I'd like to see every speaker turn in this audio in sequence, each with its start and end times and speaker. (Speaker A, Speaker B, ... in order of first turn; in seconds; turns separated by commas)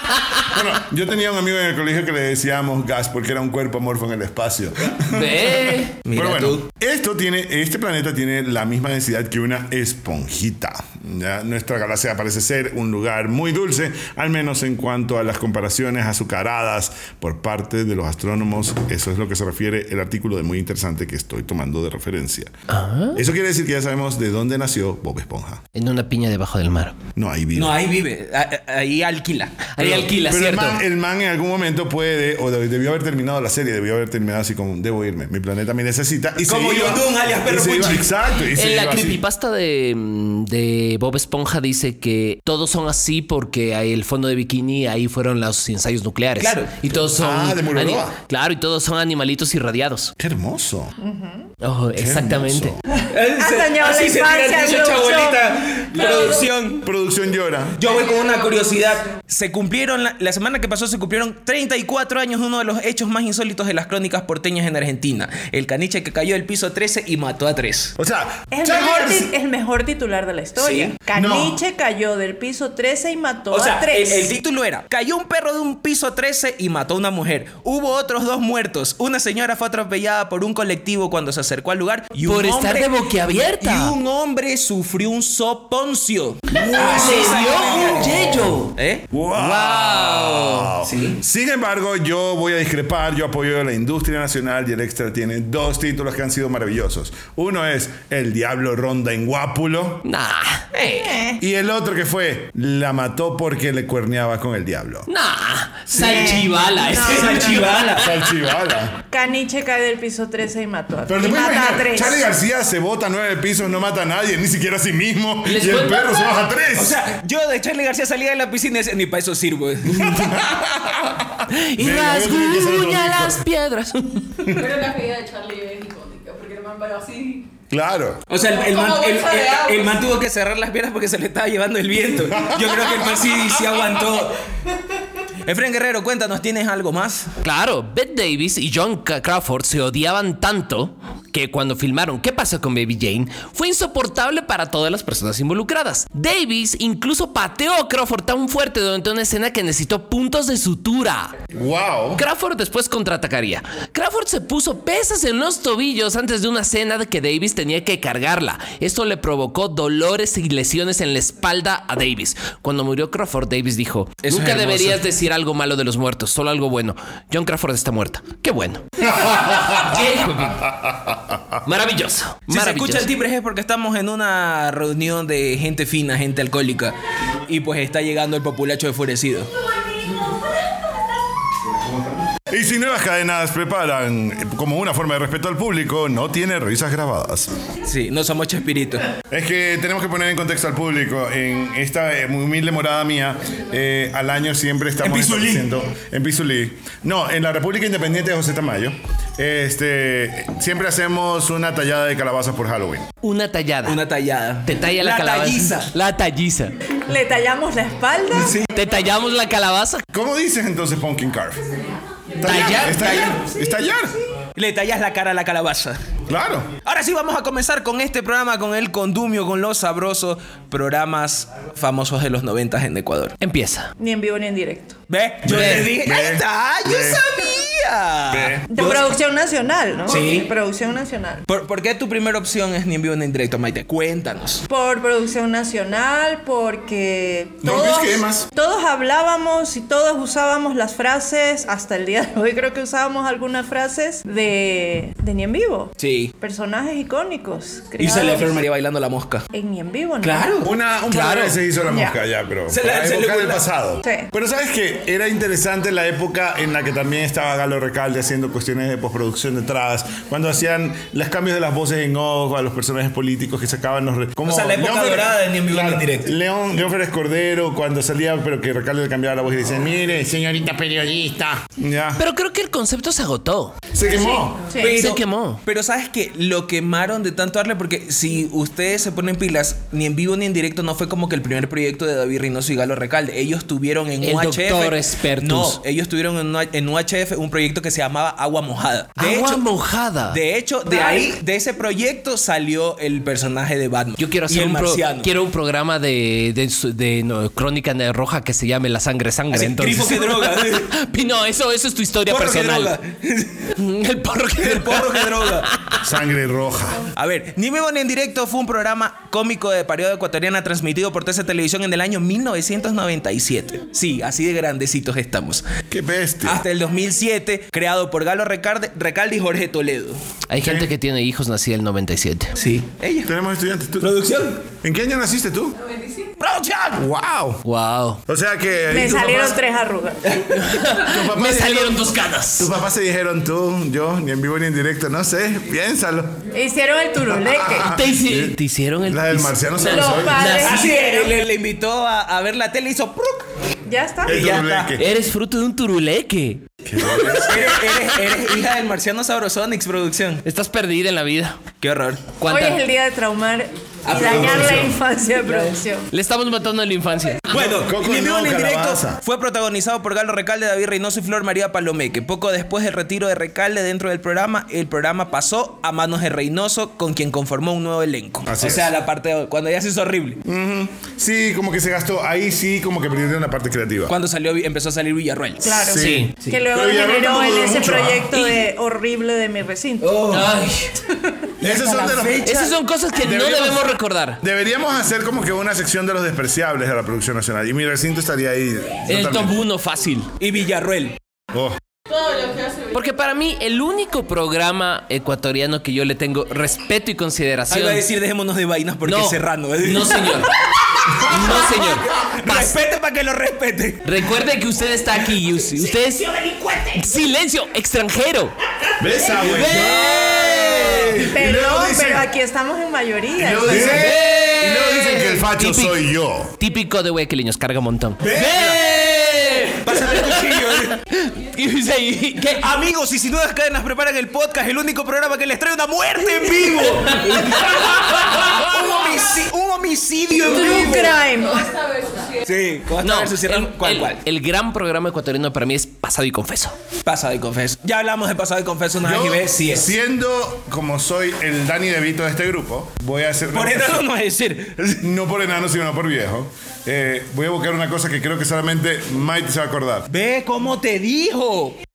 Speaker A: 0.5-22.5, Speaker B: 5.1-5.9, Speaker C: 6.0-6.6, Speaker B: 22.7-23.2, Speaker A: 23.1-25.6, Speaker B: 25.7-27.0, Speaker A: 27.1-27.8, Speaker C: 27.5-29.8, Speaker B: 29.8-30.8, Speaker A: 29.8-39.2, Speaker C: 36.4-38.1, Speaker B: 38.5-50.1, Speaker C: 46.4-46.7, Speaker A: 46.9-48.1, Speaker A: 50.2-50.9, Speaker D: 51.0-51.5, Speaker B: 51.6-52.8, Speaker A: 51.9-52.8, Speaker C: 53.0-56.9, Speaker D: 53.4-55.7, Speaker A: 56.8-57.8, Speaker C: 57.8-67.9, Speaker A: 68.0-69.3, Speaker D: 68.5-74.3, Speaker C: 70.6-71.0, Speaker A: 71.1-71.6, Speaker C: 73.5-89.0, Speaker B: 82.2-83.9, Speaker A: 86.5-88.3, Speaker B: 86.5-88.7, Speaker A: 89.1-100.0, Speaker B: 89.3-90.7, Speaker C: 90.8-91.2, Speaker B: 100.0-101.0, Speaker D: 101.0-101.4, Speaker A: 101.4-105.1, Speaker B: 105.1-108.3, Speaker C: 105.9-106.4, Speaker D: 106.0-107.9, Speaker C: 106.9-108.1, Speaker A: 107.9-108.9, Speaker D: 109.1-112.3, Speaker A: 111.1-117.0, Speaker B: 115.5-116.3, Speaker C: 116.7-120.1, Speaker A: 119.8-123.4, Speaker B: 120.0-120.4, Speaker B: 121.5-124.6, Speaker E: 124.5-127.5, Speaker A: 127.7-128.2, Speaker C: 128.3-134.4, Speaker E: 128.4-130.1, Speaker A: 132.3-133.8, Speaker C: 135.4-137.3, Speaker B: 137.4-151.3, Speaker A: 151.5-152.2, Speaker B: 152.2-170.8, Speaker C: 164.2-165.0, Speaker A: 169.1-171.6, Speaker B: 171.6-173.1, Speaker C: 172.5-176.9, Speaker C: 177.5-179.5, Speaker A: 182.3-187.5, Speaker C: 187.9-189.0, Speaker A: 189.3-203.1, Speaker C: 195.0-195.7, Speaker B: 203.2-204.0, Speaker C: 203.8-205.9, Speaker B: 204.6-206.7, Speaker D: 207.1-208.6, Speaker C: 208.3-208.7, Speaker B: 208.7-210.0, Speaker A: 210.1-211.7, Speaker A: 212.4-214.2, Speaker B: 212.4-213.3, Speaker C: 214.6-216.0, Speaker A: 216.3-216.7, Speaker C: 216.8-223.3, Speaker B: 223.4-223.9, Speaker D: 224.0-224.9, Speaker C: 225.1-229.1, Speaker A: 225.4-227.2, Speaker B: 225.5-225.9, Speaker A: 228.3-228.7, Speaker D: 228.7-231.4, Speaker C: 230.1-230.5, Speaker C: 231.5-234.6, Speaker D: 234.7-248.5, Speaker A: 237.6-238.4, Speaker C: 246.0-246.3, Speaker C: 248.0-249.4, Speaker D: 249.5-250.5, Speaker C: 250.2-250.7, Speaker A: 250.6-272.2, Speaker B: 251.1-251.6, Speaker D: 251.9-252.2, Speaker C: 252.7-253.6, Speaker C: 264.4-266.3, Speaker B: 272.2-273.8, Speaker A: 273.9-274.7, Speaker D: 274.7-275.0, Speaker C: 274.8-289.6, Speaker B: 274.8-275.6, Speaker B: 284.2-285.8, Speaker B: 289.2-290.4, Speaker C: 290.3-295.3, Speaker B: 294.2-302.9, Speaker C: 299.5-300.9, Speaker C: 302.3-303.7, Speaker B: 303.8-306.0, Speaker C: 304.6-305.7, Speaker A: 306.0-307.1, Speaker C: 307.1-315.6, Speaker A: 315.9-316.6, Speaker C: 316.4-320.2, Speaker B: 320.5-322.5, Speaker A: 320.6-320.9, Speaker C: 322.6-323.3, Speaker A: 323.2-324.1, Speaker C: 324.0-324.6, Speaker A: 324.8-325.8, Speaker E: 325.8-326.3, Speaker C: 326.4-327.0, Speaker A: 326.9-327.6, Speaker B: 327.6-328.2, Speaker A: 328.3-329.6, Speaker D: 328.9-330.3, Speaker C: 330.2-330.7, Speaker B: 330.5-332.7, Speaker A: 330.9-336.4, Speaker D: 336.5-337.9, Speaker A: 337.2-340.5, Speaker B: 337.9-340.9, Speaker D: 339.8-341.3, Speaker C: 340.6-343.5, Speaker D: 343.9-344.5, Speaker A: 344.2-345.0, Speaker C: 344.3-344.9, Speaker B: 345.0-348.1, Speaker A: 346.9-347.8, Speaker C: 347.5-350.4, Speaker B: 350.4-351.6, Speaker C: 351.8-352.3, Speaker B: 352.4-352.8, Speaker D: 352.4-356.1, Speaker C: 354.0-354.9, Speaker A: 354.1-354.9, Speaker B: 356.1-357.6, Speaker C: 357.5-370.4, Speaker A: 357.5-359.2, Speaker A: 368.4-368.9, Speaker A: 370.4-374.1, Speaker C: 374.1-375.8, Speaker D: 375.6-380.3, Speaker A: 375.8-378.4, Speaker B: 375.9-376.3, Speaker C: 380.0-380.5, Speaker B: 380.3-380.9, Speaker A: 381.6-382.5, Speaker C: 381.6-382.8, Speaker B: 382.4-384.4, Speaker A: 383.1-389.6, Speaker B: 389.1-390.3, Speaker C: 390.4-391.2, Speaker A: 391.5-391.8, Speaker E: 392.1-393.0, Speaker B: 392.9-398.0, Speaker C: 397.7-404.3, Speaker B: 399.0-400.5, Speaker B: 401.1-402.8, Speaker B: 404.0-406.3, Speaker C: 405.4-407.1, Speaker B: 406.9-408.5, Speaker A: 409.0-412.3, Speaker B: 409.2-411.2, Speaker C: 409.7-410.5, Speaker D: 411.3-414.0, Speaker A: 413.4-416.5, Speaker B: 413.7-416.0, Speaker C: 413.7-414.0, Speaker B: 416.6-422.7, Speaker C: 418.2-418.8, Speaker C: 419.8-421.0, Speaker C: 422.5-431.2, Speaker B: 426.5-428.5, Speaker D: 430.4-431.7, Speaker E: 431.3-432.4, Speaker C: 432.4-434.2, Speaker B: 433.0-436.8, Speaker C: 437.0-439.9, Speaker A: 439.0-444.1, Speaker C: 443.5-445.0, Speaker A: 445.0-450.1, Speaker C: 450.1-451.8